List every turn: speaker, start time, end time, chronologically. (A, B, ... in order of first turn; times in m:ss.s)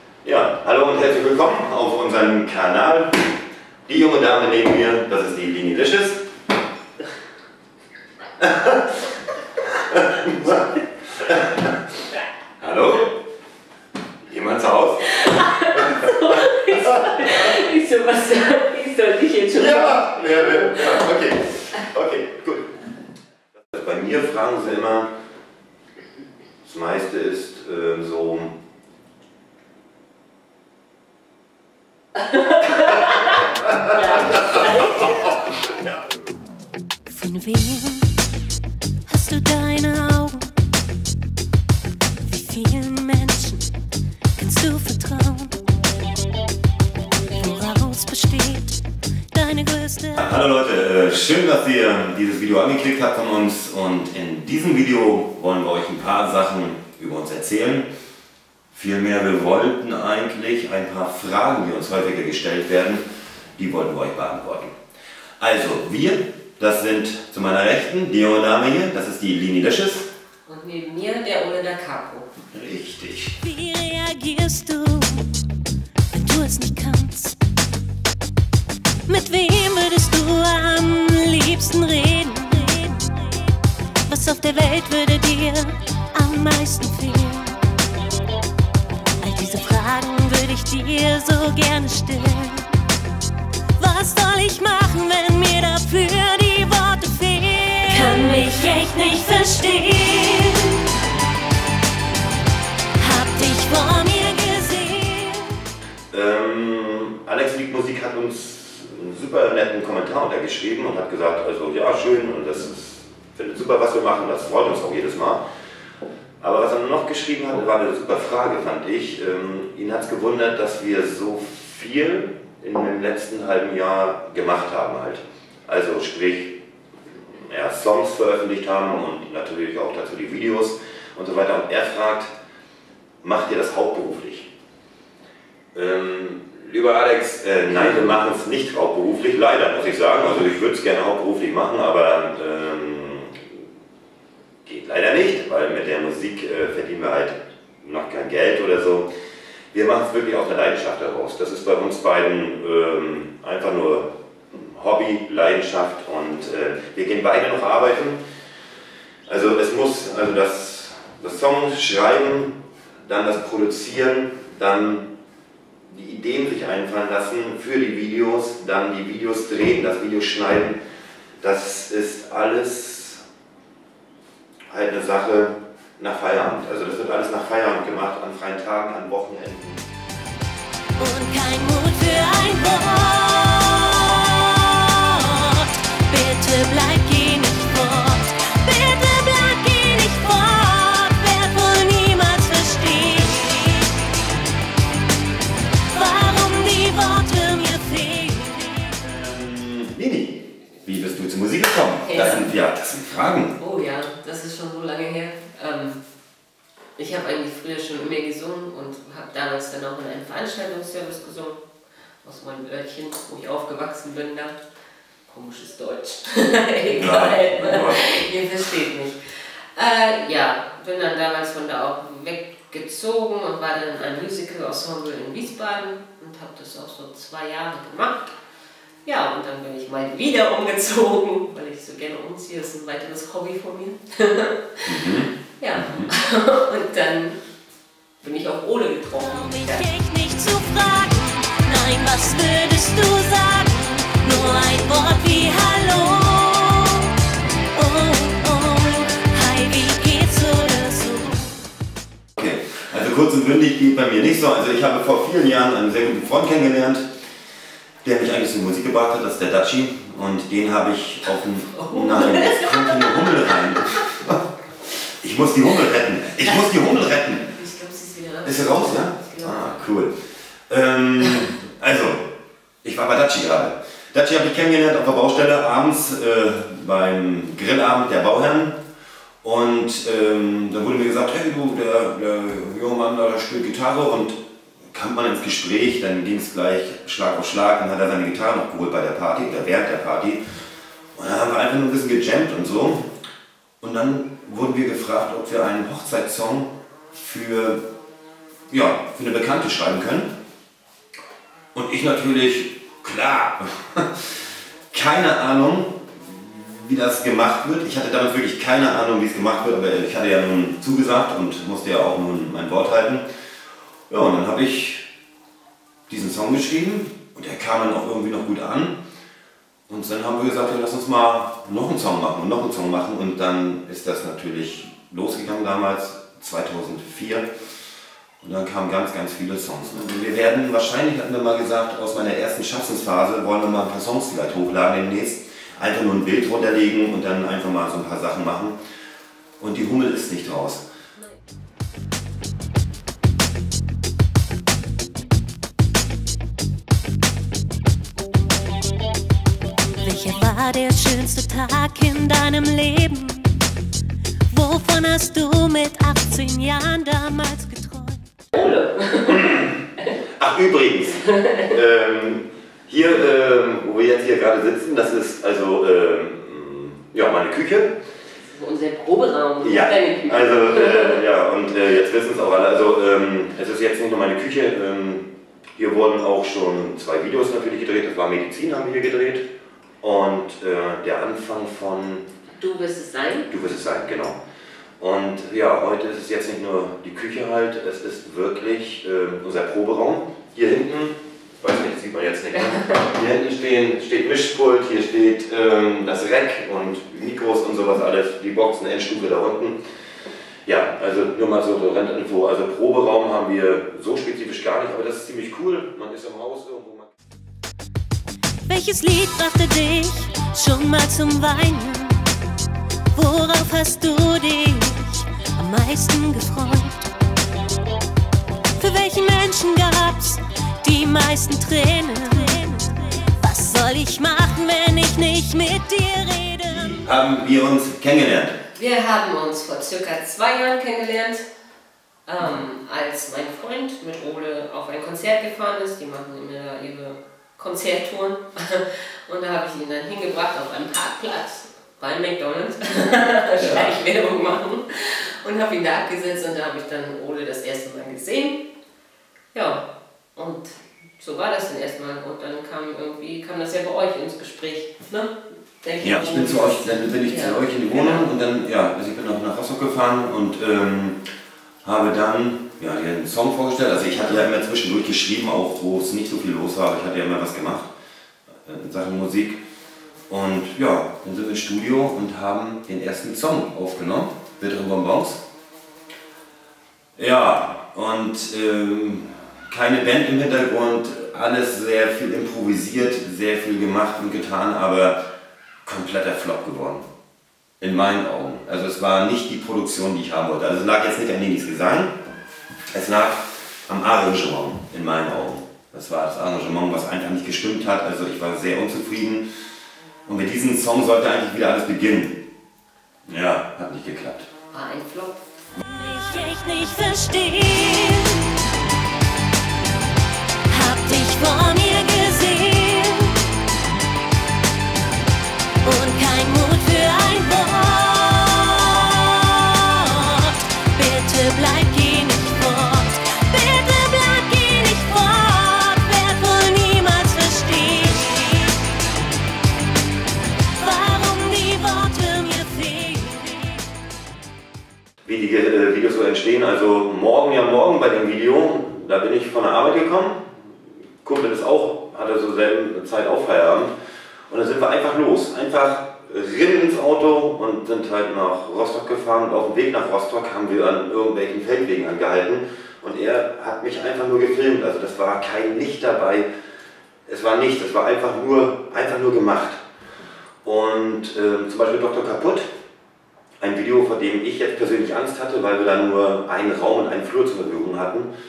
0:00.2-0:03.2 A
0:03.9-0:06.2 A
0:08.4-0:09.1 A
0:09.6-0:11.8 A
0:12.6-0:13.2 A
0:14.2-0:15.1 A
0:15.1-0:21.1 B
0:15.7-0:17.6 A
0:19.5-0:22.7 A
0:23.7-0:25.1 A
0:26.6-0:28.6 A
0:32.2-0:35.3 B
0:37.1-0:38.1 C
0:39.1-0:40.5 C
0:42.3-0:43.7 C
0:44.4-0:45.6 C
0:47.4-0:48.8 C
0:49.3-0:50.3 C
0:50.2-0:57.9 A
0:58.7-1:03.0 A
1:03.6-1:04.7 A
1:05.4-1:10.1 A
1:10.5-1:12.3 B
1:12.5-1:13.4 A
1:13.4-1:15.3 C
1:16.1-1:17.4 C
1:19.1-1:23.5 C
1:24.1-1:27.6 C
1:29.2-1:32.8 C
1:33.8-1:40.9 C
1:43.0-1:45.6 C
1:46.1-1:55.4 A
1:56.4-2:06.6 A
2:07.2-2:12.3 A
2:13.2-2:14.5 A
2:15.7-2:23.5 A
2:24.6-2:29.1 A
2:29.7-2:38.2 A
2:39.3-2:45.1 A
2:45.9-2:50.8 A
2:51.4-2:53.2 A
2:54.7-2:59.9 A
3:01.0-3:14.0 C
3:15.9-3:19.0 C
3:19.0-3:23.5 A
3:22.0-3:22.5 B
3:23.6-3:26.0 B
3:27.0-3:31.6 B
3:32.2-3:34.6 B
3:35.3-3:48.3 B
3:37.0-3:38.3 A
3:49.0-3:55.0 B
3:54.9-3:56.1 A
3:55.6-3:57.4 B
3:58.2-3:59.9 B
3:59.2-4:07.2 C
4:07.7-4:11.6 C
4:12.4-4:17.1 A
4:18.0-4:24.4 A
4:21.7-4:24.0 B
4:25.0-4:27.5 A
4:27.5-4:29.8 B
4:28.4-4:30.1 A
4:30.7-4:32.2 A
4:32.8-4:38.8 A
4:39.4-4:44.4 A
4:44.9-4:50.4 A
4:51.2-4:53.1 A
4:53.8-4:57.8 A
4:58.7-5:00.3 A
5:01.7-5:04.4 A
5:04.9-5:13.2 A
5:14.1-5:15.0 A
5:16.1-5:19.0 A
5:19.9-5:27.4 A
5:28.4-5:38.8 A
5:39.6-5:40.8 A
5:50.0-5:53.6 C
5:54.5-5:58.3 C
5:58.5-6:00.1 B
5:59.3-5:59.8 A
6:00.4-6:08.0 A
6:01.2-6:01.7 B
6:08.4-6:11.2 B
6:09.6-6:15.3 A
6:15.8-6:19.4 A
6:20.0-6:22.2 A
6:22.6-6:23.5 B
6:23.5-6:24.4 A
6:25.0-6:39.8 A
6:40.6-6:47.1 A
6:48.7-6:52.3 C
6:53.1-6:57.1 C
6:58.8-7:07.0 C
7:06.7-7:08.6 A
7:08.8-7:11.5 B
7:12.3-7:28.6 B
7:23.6-7:23.9 A
7:29.5-7:29.8 B
7:30.4-7:38.3 B
7:36.0-7:41.2 A
7:41.8-7:47.9 A
7:48.7-7:49.6 A
7:50.3-7:55.4 A
7:57.2-8:05.2 A
8:05.8-8:07.0 A
8:07.8-8:12.2 A
8:12.9-8:19.4 A
8:20.3-8:22.4 A
8:23.3-8:24.5 A
8:24.7-8:25.4 B
8:25.8-8:28.5 C
8:30.7-8:33.5 C
8:35.8-8:48.8 C
8:50.8-8:53.9 C
8:55.2-9:00.6 A
9:01.2-9:03.9 A
9:04.5-9:16.5 A
9:17.3-9:19.8 A
9:20.6-9:22.7 A
9:23.6-9:28.3 A